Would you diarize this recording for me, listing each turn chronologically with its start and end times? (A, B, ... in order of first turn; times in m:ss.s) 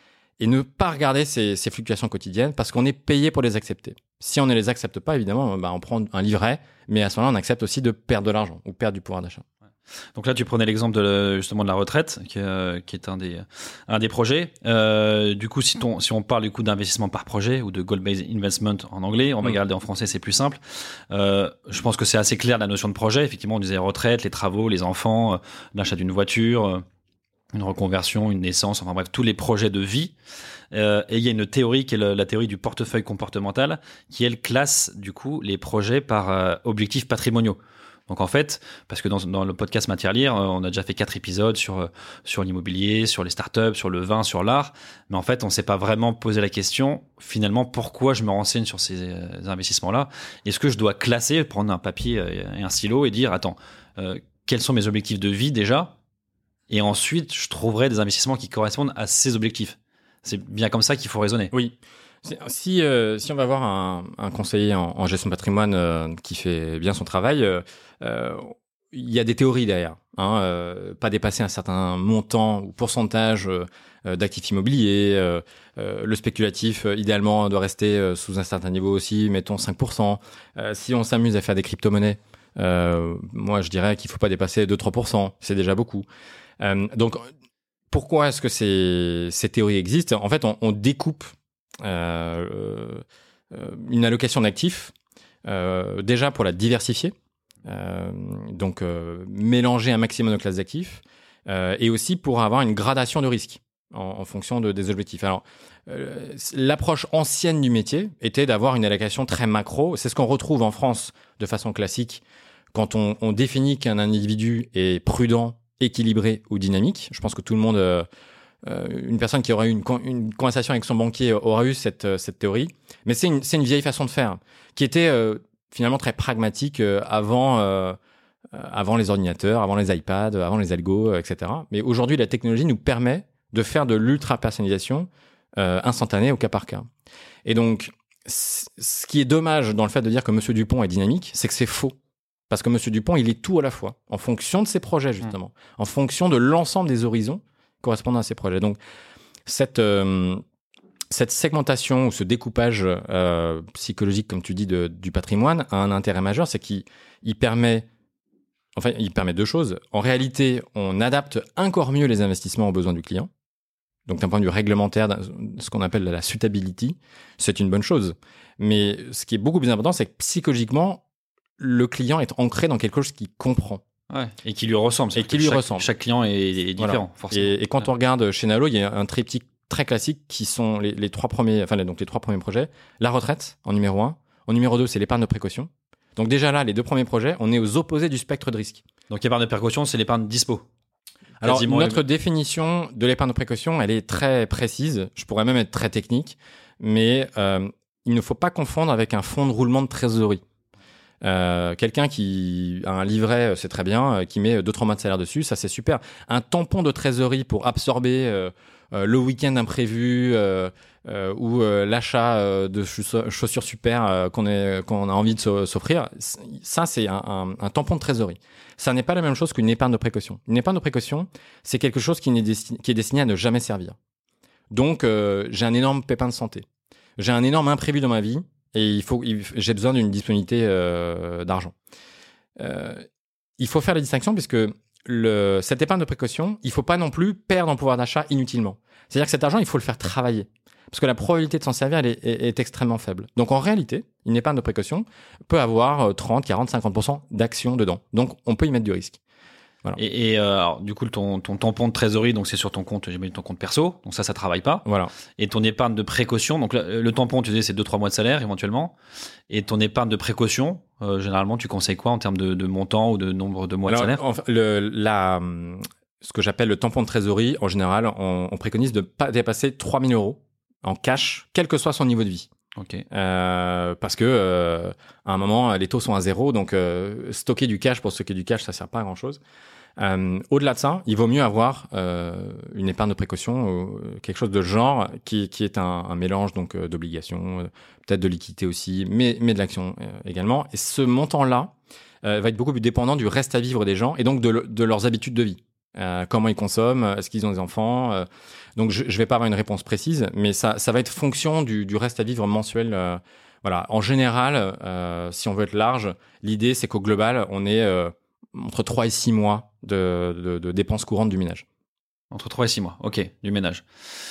0:00.4-0:09.4 A
0:10.2-0:20.6 B
0:21.1-0:26.8 B
0:27.5-0:30.1 B
0:30.7-0:56.0 B
0:56.7-1:01.5 B
1:01.5-1:26.1 A
1:26.6-1:27.3 A
1:27.9-1:34.9 A
1:35.4-1:37.1 A
1:37.6-1:52.2 A
1:52.7-1:58.1 A
1:58.6-2:08.0 A
2:08.5-2:16.9 A
2:17.4-2:22.0 A
2:22.5-2:28.8 A
2:29.5-2:30.4 A
2:31.1-2:37.9 A
2:38.8-2:43.3 A
2:44.1-2:51.0 A
2:51.6-2:53.8 A
2:54.1-2:57.9 B
2:55.2-2:55.9 A
2:56.8-3:08.8 A
3:09.1-3:10.7 B
3:11.4-3:12.0 B
3:11.4-3:20.4 A
3:21.2-3:44.0 A
3:44.7-3:46.7 A
3:47.2-3:51.7 A
3:52.6-3:53.1 A
3:53.6-4:09.2 A
4:10.0-4:14.9 B
4:14.8-4:15.1 A
4:15.4-4:19.0 B
4:19.5-4:24.2 B
4:23.9-4:32.5 A
4:32.8-4:33.0 B
4:33.1-4:39.4 A
4:40.0-5:11.6 A
5:12.3-5:13.8 B